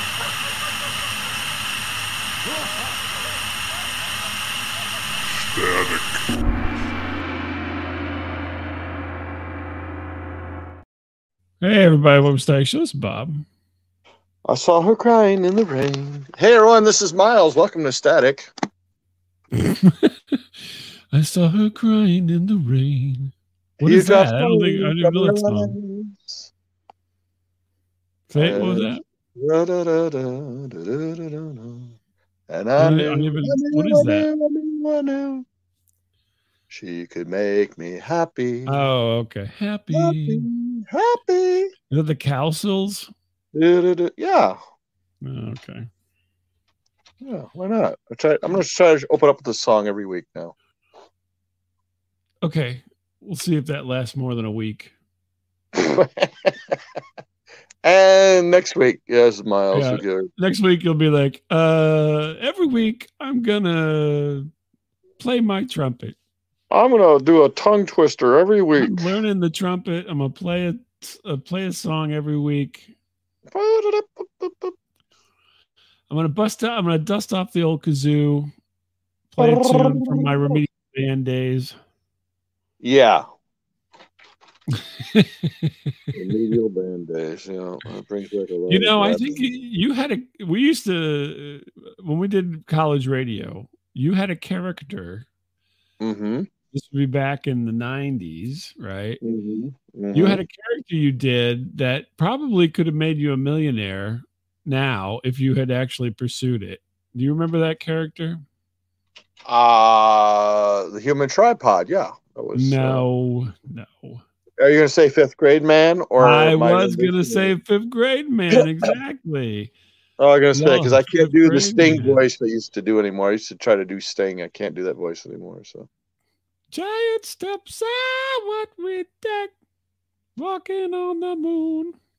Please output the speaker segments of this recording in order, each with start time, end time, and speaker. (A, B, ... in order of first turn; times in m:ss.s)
0:11.6-0:13.4 A
0:14.4-0:18.5 B
0:19.5-0:25.8 A
0:23.8-0:26.5 B
0:28.3-0:29.0 A
0:28.3-0:31.9 B
0:32.5-0:35.4 B
0:32.8-0:34.3 A
0:36.7-0:38.8 B
0:38.6-0:40.5 A
0:39.9-0:41.7 B
0:41.9-0:43.1 A
0:43.5-0:44.6 B
0:45.2-0:45.9 A
0:47.2-0:50.5 B
0:52.4-0:54.9 A
0:55.7-0:56.8 B
0:57.8-1:00.3 B
0:59.7-1:04.5 A
1:05.2-1:06.2 A
1:06.7-1:09.1 B
1:08.8-1:12.9 A
1:13.5-1:14.7 B
1:16.1-1:18.5 A
1:19.3-1:21.7 A
1:19.4-1:20.6 B
1:22.8-1:23.2 B
1:24.7-1:26.1 A
1:26.1-1:29.4 B
1:28.7-1:35.3 A
1:36.0-1:36.5 B
1:36.7-1:39.2 A
1:39.2-1:40.4 B
1:40.1-1:48.4 A
1:49.5-1:53.0 B
1:52.5-1:54.2 A
1:54.6-1:57.5 B
1:56.2-1:59.7 A
2:00.2-2:05.9 B
2:00.5-2:02.2 A
2:06.7-2:09.5 A
2:10.4-2:12.0 A